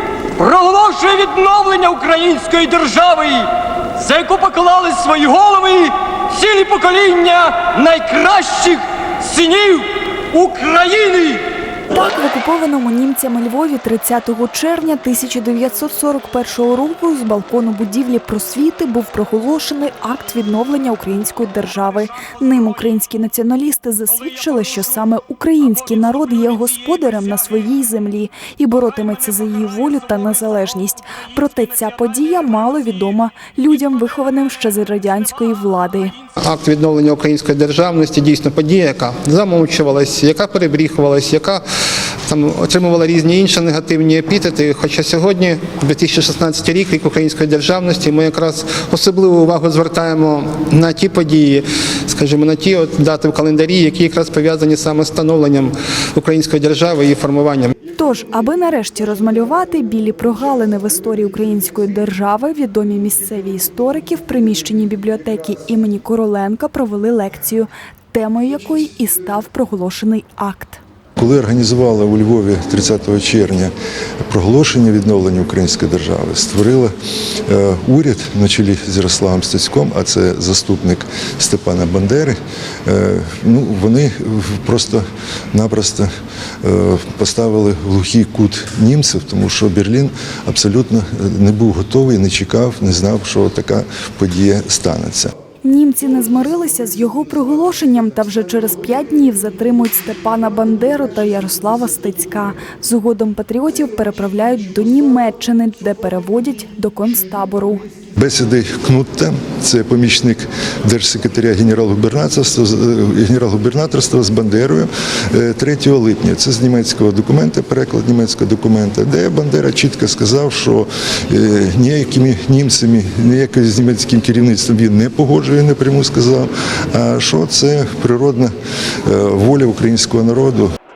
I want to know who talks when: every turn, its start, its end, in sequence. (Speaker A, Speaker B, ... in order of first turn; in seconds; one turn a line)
Speaker A: 0.4-11.4
Speaker B: 11.9-36.1
Speaker C: 36.4-41.6
Speaker C: 42.3-57.7
Speaker B: 58.0-70.8
Speaker D: 71.2-73.7
Speaker D: 74.3-76.9
Speaker D: 77.5-86.1
Speaker D: 86.6-95.3
Speaker B: 95.6-107.8
Speaker D: 108.2-128.5
Speaker D: 129.1-130.7